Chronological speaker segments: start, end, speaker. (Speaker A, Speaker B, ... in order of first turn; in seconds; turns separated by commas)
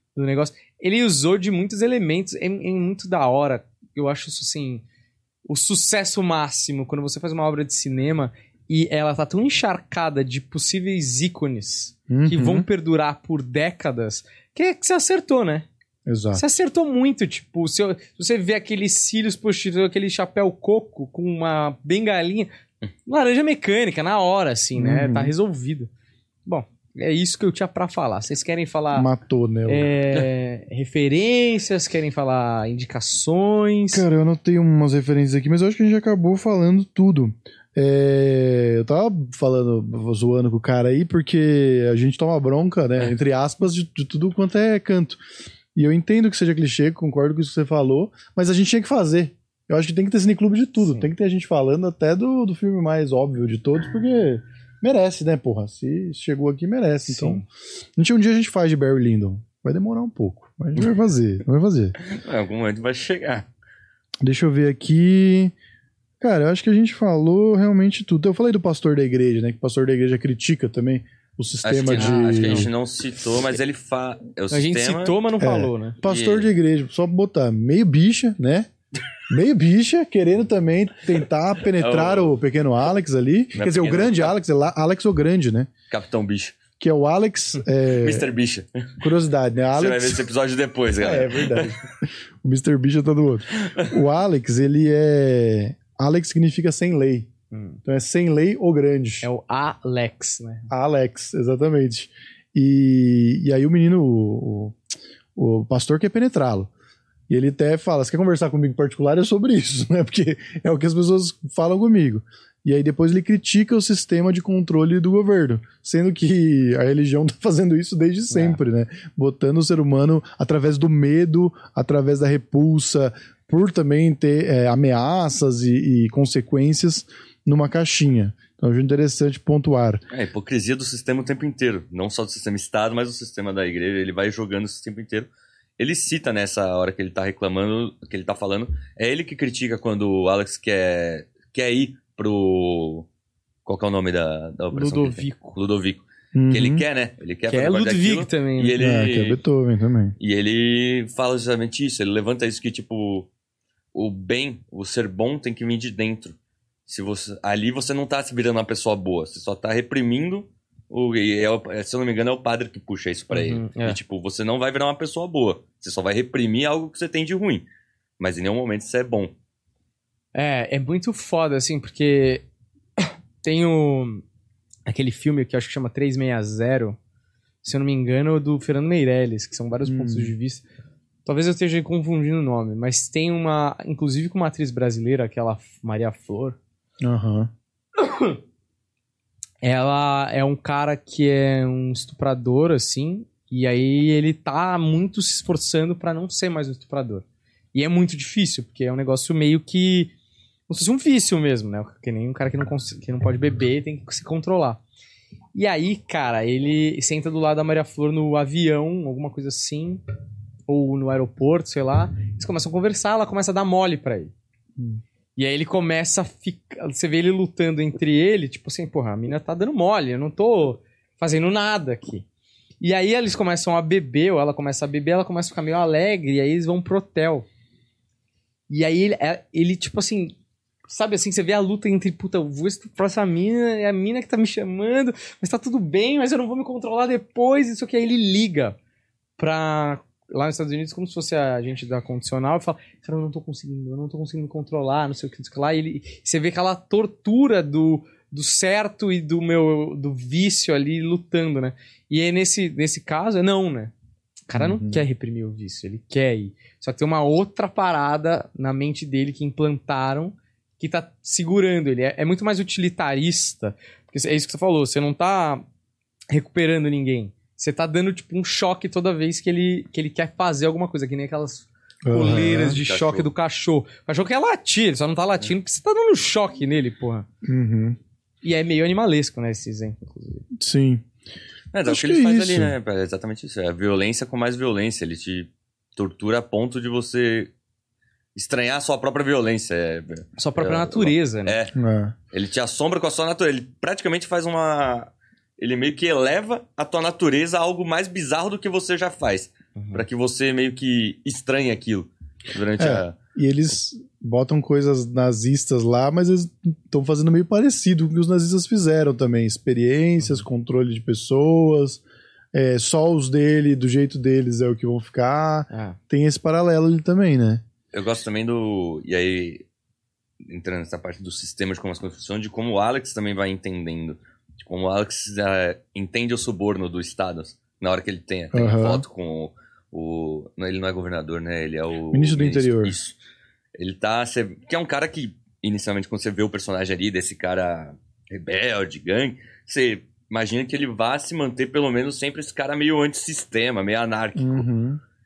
Speaker A: 0.1-4.8, Speaker A: 5.5-15.7, Speaker B: 12.1-12.7, Speaker B: 16.1-16.4, Speaker A: 16.3-22.5, Speaker A: 23.1-25.9, Speaker B: 24.8-25.3, Speaker A: 26.4-29.1, Speaker B: 28.9-29.9, Speaker A: 29.7-34.0, Speaker B: 33.9-45.2, Speaker B: 45.7-57.4, Speaker A: 50.8-51.1, Speaker A: 57.1-57.5, Speaker B: 58.0-61.9, Speaker C: 62.0-63.5, Speaker B: 64.2-65.5, Speaker B: 66.2-72.7, Speaker C: 71.6-75.2, Speaker A: 71.9-72.7, Speaker A: 74.5-76.0, Speaker B: 75.4-78.7, Speaker C: 76.0-76.5, Speaker B: 79.3-85.7, Speaker C: 81.8-82.3, Speaker C: 83.5-84.3, Speaker C: 85.9-86.5, Speaker B: 86.8-88.3, Speaker C: 87.9-89.0, Speaker B: 89.0-90.3, Speaker C: 89.8-91.8, Speaker B: 91.0-97.3, Speaker C: 93.6-93.9, Speaker A: 97.5-97.8, Speaker B: 97.8-99.3, Speaker A: 99.2-100.7, Speaker B: 100.7-104.8, Speaker B: 105.3-106.7, Speaker B: 107.3-130.0, Speaker A: 118.3-118.6, Speaker C: 130.1-143.1, Speaker C: 143.7-149.4, Speaker A: 144.7-145.6, Speaker B: 146.3-146.8, Speaker A: 147.5-148.7, Speaker B: 148.8-150.1, Speaker C: 150.2-153.3, Speaker C: 153.9-156.3, Speaker C: 156.9-167.7, Speaker A: 163.3-164.0, Speaker C: 168.2-169.3, Speaker A: 170.3-172.4, Speaker A: 173.0-174.2, Speaker A: 174.9-177.0, Speaker A: 177.6-180.6, Speaker B: 179.8-180.3, Speaker A: 181.2-186.6, Speaker B: 187.0-187.5, Speaker A: 188.0-188.4, Speaker A: 189.6-200.1, Speaker A: 200.7-204.8, Speaker A: 205.5-210.0, Speaker A: 210.7-214.3, Speaker A: 215.3-222.2, Speaker A: 222.8-227.5, Speaker A: 228.7-230.3, Speaker A: 230.9-238.8, Speaker A: 239.4-253.9, Speaker A: 254.5-265.6, Speaker B: 254.6-255.0, Speaker A: 266.3-277.3, Speaker B: 272.0-272.8, Speaker C: 272.5-273.3, Speaker B: 277.4-278.0, Speaker A: 278.4-280.5, Speaker B: 280.6-281.1, Speaker C: 281.7-287.5, Speaker B: 281.8-282.7, Speaker C: 288.3-291.8, Speaker A: 290.4-291.6, Speaker B: 291.7-292.1, Speaker C: 292.3-303.1, Speaker A: 299.8-300.0, Speaker B: 302.8-317.6, Speaker A: 315.7-316.0, Speaker C: 317.9-319.7, Speaker C: 320.4-333.1, Speaker B: 328.5-329.0, Speaker B: 332.1-332.9, Speaker C: 333.8-344.6, Speaker B: 344.4-345.0